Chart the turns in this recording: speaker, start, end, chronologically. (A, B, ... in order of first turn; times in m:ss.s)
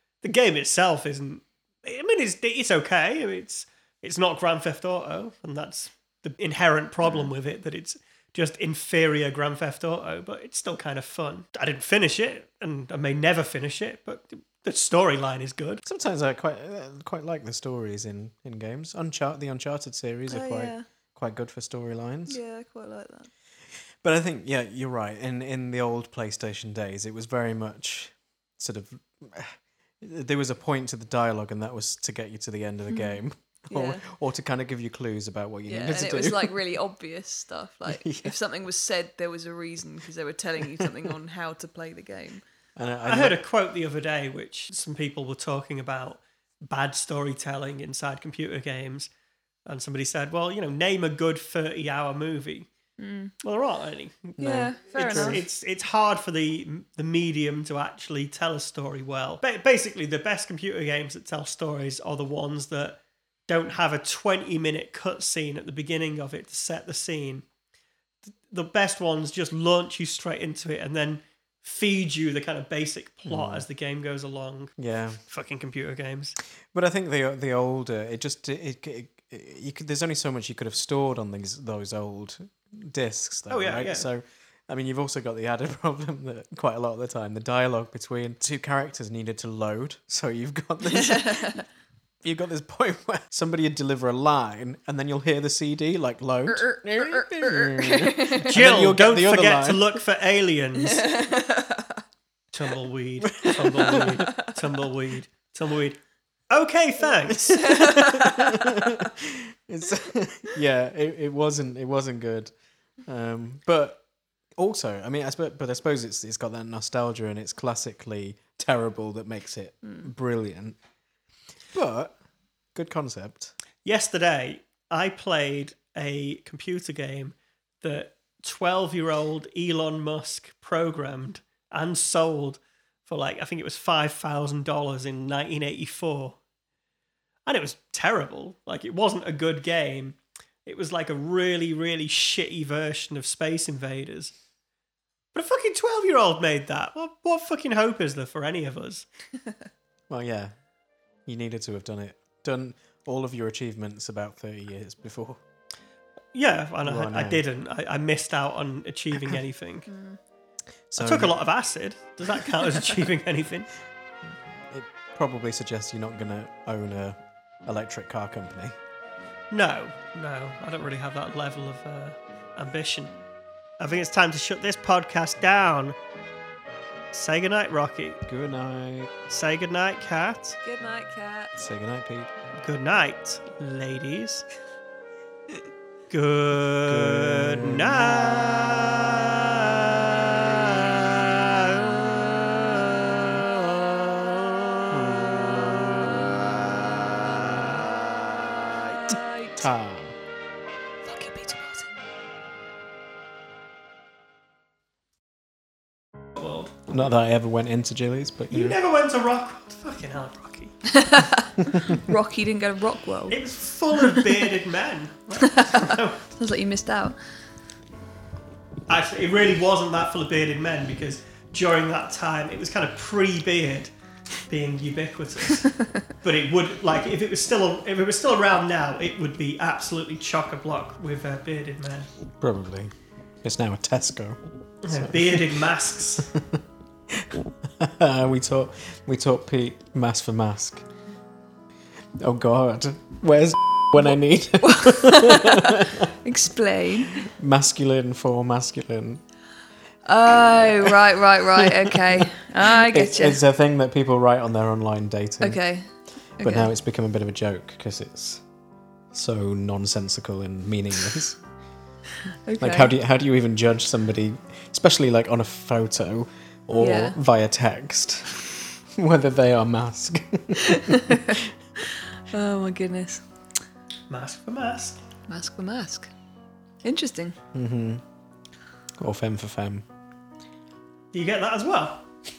0:00.2-0:15.8 A
0:07.0-0:07.3 B
0:15.8-0:22.4 C
0:20.3-0:20.8 B
0:22.3-0:23.3 B
0:24.0-0:36.6 C
0:32.9-0:33.2 B
0:33.7-0:34.0 B
0:35.7-0:42.4 B
0:37.9-0:38.3 C
0:42.8-0:43.4 C
0:43.0-0:49.1 A
0:49.7-0:52.7 A
0:53.0-0:53.3 B
0:53.4-0:54.3 A
0:54.4-0:55.4 C
0:54.4-0:55.4 B
0:54.9-1:07.4 A
1:08.5-1:16.4 A
1:13.2-1:13.6 C
1:14.8-1:15.2 C
1:16.7-1:31.6 C
1:23.5-1:24.1 A
1:31.0-1:31.6 B
1:32.2-1:40.0 C
1:36.6-1:38.5 B
1:38.5-1:41.1 A
1:40.8-1:42.0 B
1:42.5-1:46.0 A
1:43.2-1:44.4 C
1:46.5-1:47.7 A
1:47.3-1:52.5 C
1:47.6-1:49.0 B
1:53.1-1:54.0 C
1:54.6-2:00.8 C
2:01.7-2:02.2 C
2:02.8-2:03.5 C
2:03.8-2:16.4 A
2:17.5-2:24.3 A
2:25.3-2:29.1 A
2:30.1-2:30.5 C
2:31.3-2:35.4 C
2:36.3-2:39.9 A
2:36.8-2:37.4 C
2:39.9-2:40.2 B
2:40.9-2:41.4 C
2:41.0-2:43.7 A
2:44.7-2:48.8 C
2:49.5-2:53.1 A
2:53.8-2:56.0 A
2:57.1-2:58.2 A
2:58.3-2:59.2 C
2:59.3-3:00.6 A
3:00.6-3:01.5 B
3:01.6-3:02.3 C
3:02.6-3:04.4 A
3:06.1-3:14.8 A
3:06.9-3:08.7 C
3:14.9-3:17.8 C
3:18.6-3:19.7 B
3:19.1-3:20.2 C
3:21.0-3:21.9 B
3:26.4-3:26.8 A
3:26.9-3:28.8 C
3:28.5-3:30.8 A
3:30.9-3:33.4 B
3:33.3-3:36.2 A
3:34.0-3:34.3 B
3:35.4-3:37.2 B
3:38.9-3:43.9 A
3:44.5-3:52.1 A
3:52.4-3:55.6 C
3:54.8-3:56.3 A
3:56.2-4:00.8 C
4:02.2-4:06.1 C
4:04.6-4:07.2 B
4:07.2-4:09.2 C
4:10.1-4:13.4 B
4:10.5-4:15.6 C
4:15.4-4:15.9 B
4:16.4-4:16.7 B
4:16.4-4:18.4 C
4:19.1-4:21.4 C
4:22.5-4:22.9 B
4:22.6-4:28.4 C
4:26.8-4:27.2 B
4:28.9-4:31.4 C
4:30.6-4:31.4 B
4:32.3-4:33.2 B
4:34.1-4:35.0 A
4:35.3-4:36.1 B
4:36.8-4:37.4 B
4:37.5-4:38.0 C
4:39.0-4:39.8 C
4:41.1-4:42.0 A